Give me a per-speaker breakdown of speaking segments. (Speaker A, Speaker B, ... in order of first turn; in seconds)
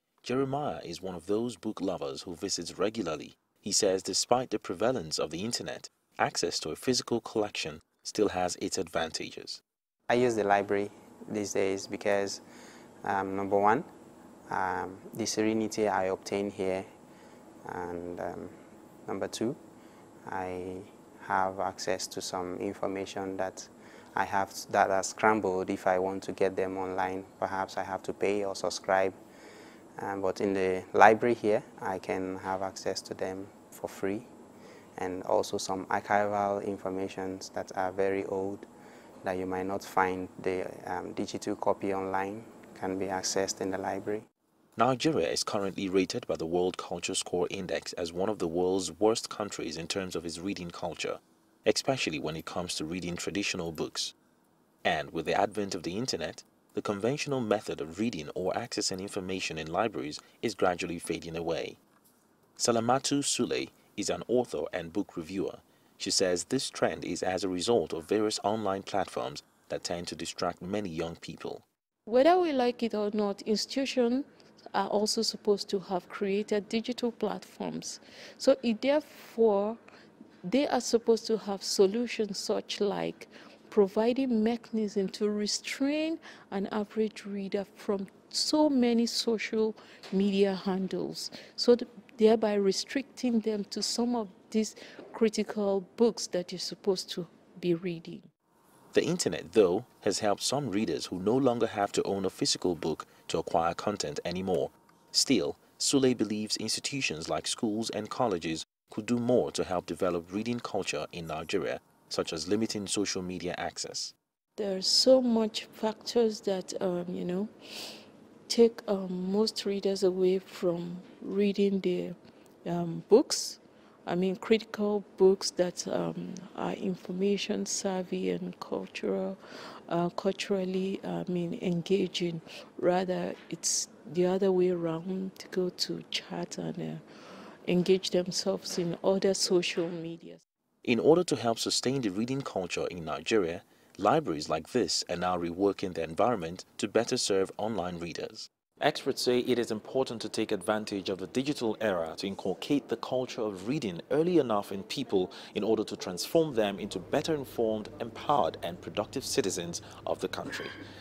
Speaker A: 0.2-9.6, 44.8-54.1, 54.8-61.8, 62.6-71.7, 98.9-114.1, 140.8-160.8
Speaker B: 10.1-12.4, 13.0-13.9, 14.5-16.9, 17.6-18.6, 19.1-19.6, 20.3-29.2, 30.0-34.3, 35.0-38.7, 39.2-44.3
Speaker C: 72.1-79.8, 80.4-98.3, 114.6-117.5, 118.5-137.0, 137.7-140.4